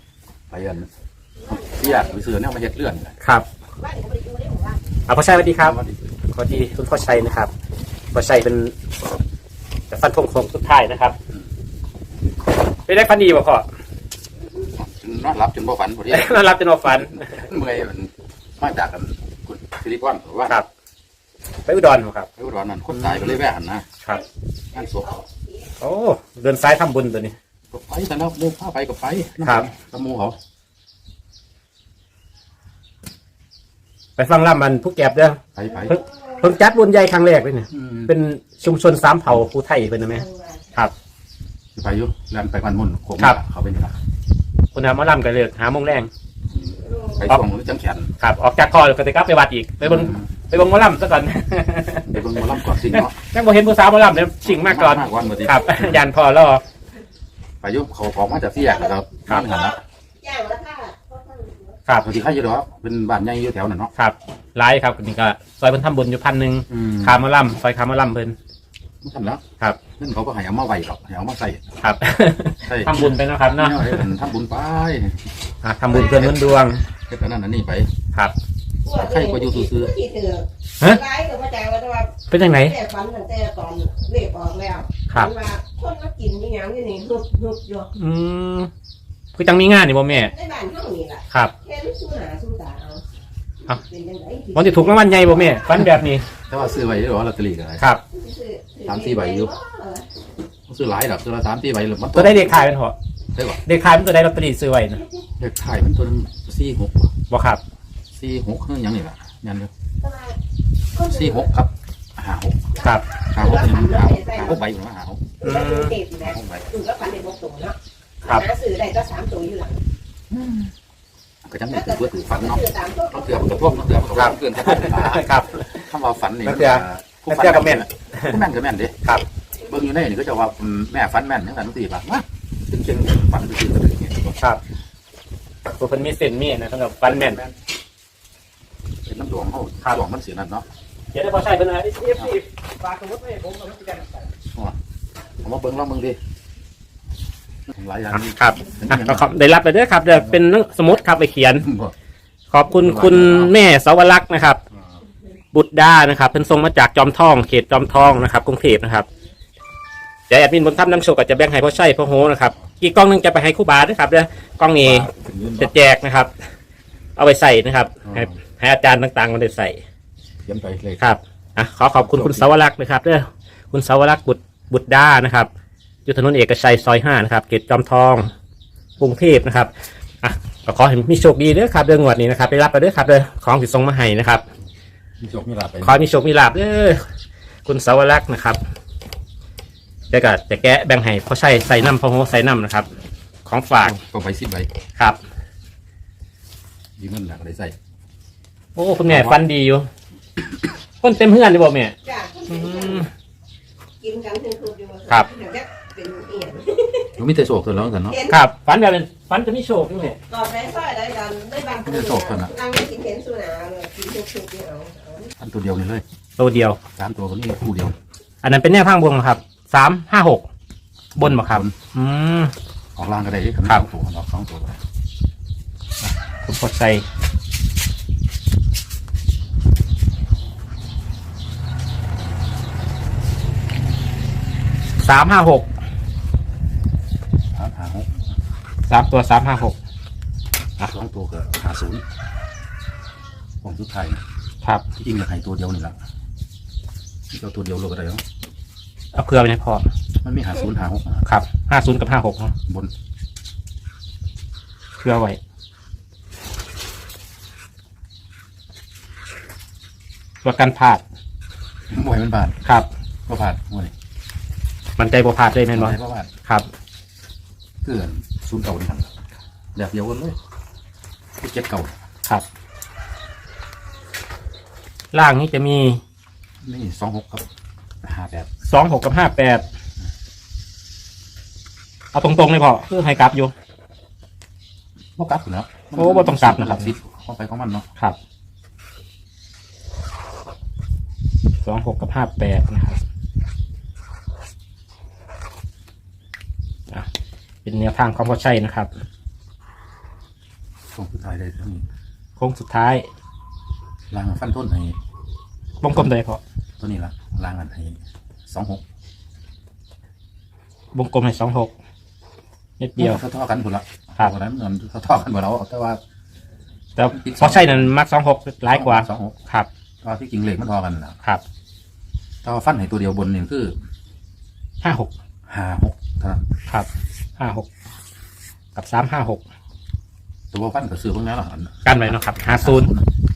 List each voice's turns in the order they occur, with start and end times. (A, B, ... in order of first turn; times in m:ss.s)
0:00.5-0:00.9 A
0:01.5-0:03.2 A
0:01.5-0:02.1 B
0:03.8-0:04.8 B
0:05.1-0:05.8 C
0:05.5-0:06.0 A
0:06.3-0:07.5 C
0:08.1-0:08.7 C
0:09.9-0:11.2 C
0:12.9-0:13.7 C
0:14.6-0:20.6 A
0:16.1-0:17.4 C
0:21.7-0:22.3 C
0:22.4-0:23.9 A
0:23.0-0:23.4 C
0:24.7-0:25.3 A
0:25.1-0:25.4 B
0:25.8-0:27.4 C
0:27.7-0:30.4 A
0:34.2-0:40.9 C
0:35.6-0:36.0 A
0:37.7-0:38.1 A
0:40.2-0:40.7 B
0:41.8-0:44.0 A
0:44.7-0:46.1 C
0:46.5-0:48.1 A
0:46.9-0:47.2 B
0:48.2-0:56.6 C
0:49.8-0:50.3 A
0:52.1-0:53.2 A
0:54.4-0:56.0 A
0:57.6-0:59.8 A
0:58.6-1:01.8 B
1:02.0-1:03.9 A
1:04.0-1:08.4 C
1:06.7-1:07.2 A
1:09.0-1:09.4 A
1:10.0-1:11.6 A
1:11.8-1:14.1 C
1:12.6-1:15.3 A
1:15.6-1:16.8 C
1:15.9-1:17.9 A
1:18.8-1:27.9 B
1:19.0-1:19.9 A
1:22.3-1:22.8 C
1:28.0-1:28.7 C
1:29.4-1:30.3 C
1:30.2-1:33.0 B
1:33.8-1:35.3 B
1:34.6-1:36.3 C
1:36.5-1:37.8 A
1:38.1-1:40.1 B
1:38.8-1:39.5 A
1:40.7-1:42.6 A
1:42.1-1:43.0 C
1:43.3-1:43.6 A
1:43.6-1:45.0 C
1:45.4-1:47.1 A
1:47.3-1:47.6 C
1:48.1-1:49.7 A
1:50.0-1:50.4 B
1:51.0-1:51.4 B
1:51.0-1:52.7 A
1:52.8-1:53.0 C
1:53.3-1:55.4 A
1:53.4-1:54.6 B
1:55.4-1:59.8 B
1:55.4-1:56.0 C
1:56.2-1:56.7 A
2:00.3-2:00.7 A
2:01.4-2:09.0 A
2:01.7-2:03.7 B
2:04.2-2:05.8 C
2:06.4-2:08.4 C
2:09.6-2:14.4 A
2:15.7-2:17.4 C
2:17.1-2:17.5 A
2:19.0-2:20.6 A
2:21.1-2:24.3 C
2:25.4-2:26.2 A
2:27.7-2:29.3 A
2:28.1-2:31.7 C
2:30.1-2:30.4 A
2:31.6-2:31.9 A
2:32.5-2:34.6 C
2:32.8-2:33.5 A
2:35.5-2:39.1 C
2:40.3-2:45.1 C
2:44.8-2:45.7 A
2:45.6-2:46.3 C
2:47.2-2:49.8 C
2:48.0-2:48.3 A
2:50.4-2:51.0 A
2:51.0-2:55.5 C
2:52.0-2:52.5 A
2:56.1-2:58.3 C
2:59.0-2:59.7 C
3:00.2-3:04.4 C
3:05.2-3:06.0 A
3:05.8-3:07.0 C
3:07.7-3:08.6 C
3:10.1-3:12.9 C
3:13.5-3:14.0 C
3:13.8-3:14.7 A
3:17.0-3:17.8 A
3:18.8-3:19.9 C
3:19.1-3:19.4 A
3:21.0-3:22.0 C
3:22.0-3:23.1 B
3:22.5-3:23.1 C
3:24.0-3:27.1 B
3:27.2-3:28.2 A
3:28.1-3:28.4 B
3:28.3-3:30.2 C
3:30.3-3:35.3 B
3:31.8-3:32.5 A
3:35.4-3:36.0 A
3:36.4-3:36.8 C
3:36.9-3:38.0 A
3:38.4-3:40.5 C
3:41.2-3:41.8 A
3:41.2-3:42.5 C
3:43.0-3:44.8 A
3:46.0-3:47.0 C
3:55.0-3:55.7 C
3:57.5-3:58.1 A
3:58.9-3:59.8 C
4:00.8-4:02.0 A
4:03.6-4:04.2 A
4:05.0-4:06.0 A
4:07.3-4:08.2 A
4:09.1-4:09.9 C
4:10.2-4:11.3 A
4:11.3-4:12.5 C
4:15.0-4:15.4 C
4:20.4-4:21.0 C
4:21.9-4:22.6 A
4:23.3-4:23.9 A
4:25.0-4:26.7 C
4:25.7-4:26.3 A
4:27.8-4:29.1 A
4:29.8-4:30.4 A
4:31.4-4:32.0 A
4:35.1-4:36.0 C
4:36.6-4:37.5 A
4:38.0-4:38.5 A
4:38.7-4:39.6 C
4:42.1-4:43.5 C
4:45.2-4:47.9 A
4:46.0-4:46.9 C
4:51.6-4:53.0 C
4:57.6-4:58.9 C
5:00.9-5:01.8 A
5:02.4-5:03.1 C
5:04.1-5:05.0 A
5:05.8-5:06.4 C
5:06.8-5:08.8 A
5:10.9-5:11.7 C
5:12.8-5:13.2 C
5:13.0-5:16.0 A
5:17.0-5:19.7 C
5:17.1-5:17.9 A
5:18.7-5:19.4 A
5:20.0-5:21.2 A
5:22.4-5:23.8 A
5:24.8-5:25.1 C
5:25.5-5:26.4 A
5:26.7-5:27.7 C
5:28.8-5:29.4 C
5:30.5-5:33.1 A
5:31.8-5:32.9 C